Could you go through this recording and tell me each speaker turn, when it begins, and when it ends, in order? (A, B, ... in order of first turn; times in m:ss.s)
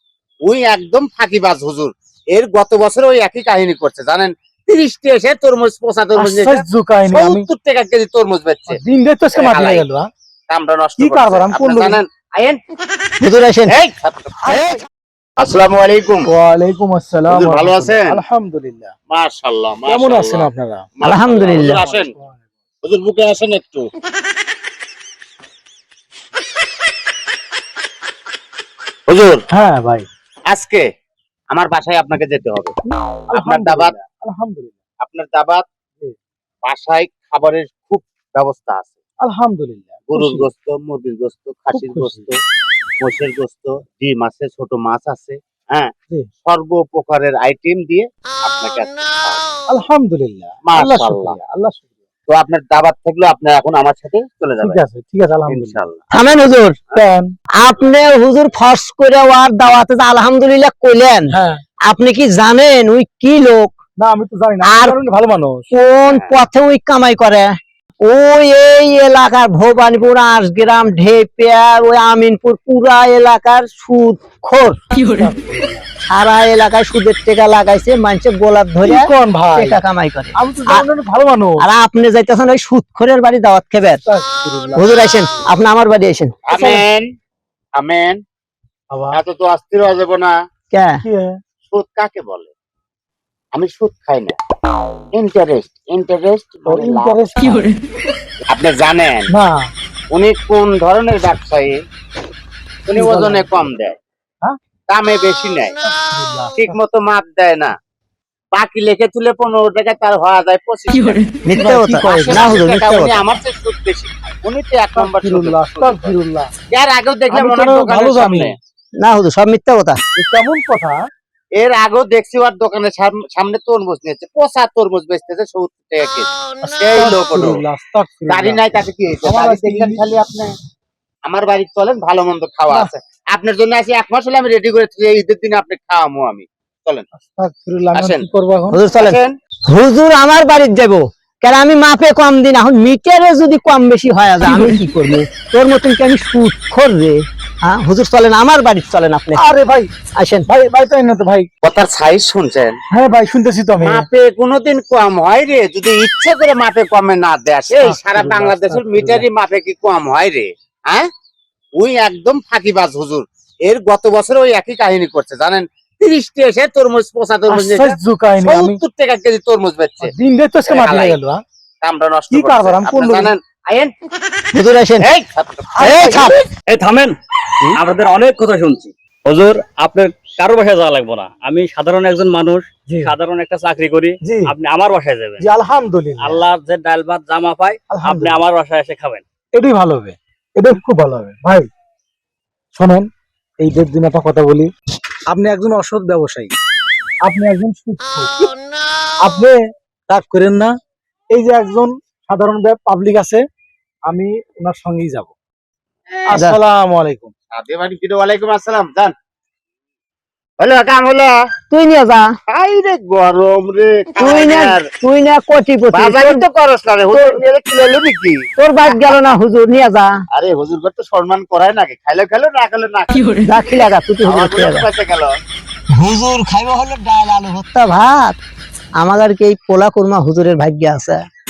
0:00.5-0:08.8 A
0:06.2-0:07.5 B
0:08.7-0:10.1 B
0:09.4-0:09.8 A
0:10.5-0:12.6 A
0:11.0-0:12.0 B
0:13.2-0:13.7 C
0:13.7-0:14.8 A
0:14.4-0:14.7 B
0:15.4-0:16.3 A
0:16.2-0:18.9 B
0:17.3-0:18.1 A
0:19.1-0:20.5 A
0:19.9-0:21.0 B
0:21.0-0:22.1 A
0:21.0-0:21.8 C
0:21.5-0:22.4 B
0:22.8-0:23.9 A
0:29.1-0:29.4 A
0:29.5-0:30.1 B
0:30.5-0:30.8 A
0:31.5-0:32.8 A
0:33.3-0:34.8 B
0:33.3-0:34.0 A
0:35.0-0:35.6 A
0:36.6-0:39.0 A
0:39.2-0:40.5 B
0:40.1-0:42.4 A
0:41.7-0:42.3 B
0:43.0-0:45.9 A
0:46.4-0:49.4 A
0:49.7-0:51.9 B
0:50.7-0:51.4 A
0:52.3-0:54.8 A
0:54.6-0:55.8 B
0:55.5-0:56.0 A
0:56.1-0:56.8 C
0:56.9-0:57.3 B
0:57.6-1:01.3 C
1:01.3-1:01.6 B
1:01.9-1:03.7 C
1:04.0-1:05.7 B
1:04.7-1:04.9 C
1:05.7-1:07.5 C
1:06.1-1:06.3 A
1:08.0-1:14.8 C
1:15.0-1:15.8 B
1:16.1-1:20.8 C
1:18.8-1:19.8 B
1:20.4-1:21.6 B
1:21.6-1:24.0 C
1:24.0-1:25.0 B
1:24.8-1:26.3 C
1:26.5-1:27.1 A
1:26.5-1:26.8 B
1:27.8-1:28.2 A
1:28.9-1:29.2 B
1:29.1-1:30.3 A
1:30.7-1:31.0 C
1:31.0-1:31.4 B
1:31.7-1:32.5 A
1:33.6-1:34.4 A
1:35.1-1:37.2 A
1:36.7-1:37.7 B
1:38.5-1:39.3 A
1:39.3-1:39.6 B
1:40.1-1:41.8 A
1:42.9-1:44.0 A
1:43.0-1:43.7 B
1:44.9-1:45.8 A
1:45.8-1:46.8 B
1:46.6-1:47.7 A
1:48.5-1:51.2 A
1:51.5-1:53.2 C
1:51.5-1:52.6 B
1:52.0-1:56.2 A
1:55.0-1:56.5 B
1:56.7-1:58.6 A
1:57.3-1:58.5 B
1:59.0-2:00.0 C
2:00.2-2:01.0 B
2:01.6-2:07.6 A
2:06.6-2:08.6 B
2:08.3-2:10.5 A
2:09.2-2:10.0 B
2:11.3-2:17.1 A
2:17.2-2:18.8 B
2:17.9-2:18.3 A
2:18.7-2:29.4 C
2:18.9-2:19.3 A
2:29.4-2:29.9 B
2:30.2-2:30.5 C
2:30.5-2:31.5 B
2:31.6-2:32.8 A
2:32.9-2:34.0 B
2:33.8-2:41.1 A
2:37.8-2:39.2 B
2:41.8-2:50.1 A
2:47.5-2:48.8 B
2:50.0-2:51.4 B
2:50.7-2:51.2 A
2:51.8-2:53.9 A
2:52.3-2:53.3 B
2:54.5-2:55.1 C
2:55.0-2:55.9 A
2:55.8-2:56.4 B
2:55.8-2:56.4 C
2:56.7-2:57.2 D
2:57.8-3:05.5 D
3:02.9-3:03.1 B
3:04.2-3:04.5 B
3:05.4-3:06.5 B
3:06.2-3:09.2 D
3:07.9-3:08.4 B
3:09.6-3:11.7 B
3:12.8-3:13.1 B
3:13.6-3:14.7 B
3:15.3-3:16.5 B
3:17.2-3:18.5 B
3:19.2-3:20.7 B
3:21.3-3:23.4 B
3:24.1-3:25.3 B
3:26.3-3:27.3 B
3:27.6-3:29.1 A
3:30.6-3:31.3 A
3:31.7-3:32.2 C
3:32.5-3:34.8 A
3:34.2-3:36.4 C
3:35.9-3:39.0 A
3:38.6-3:40.1 C
3:40.3-3:43.2 A
3:43.5-3:44.9 C
3:44.2-3:45.3 A
3:46.0-3:48.4 C
3:49.0-3:51.2 C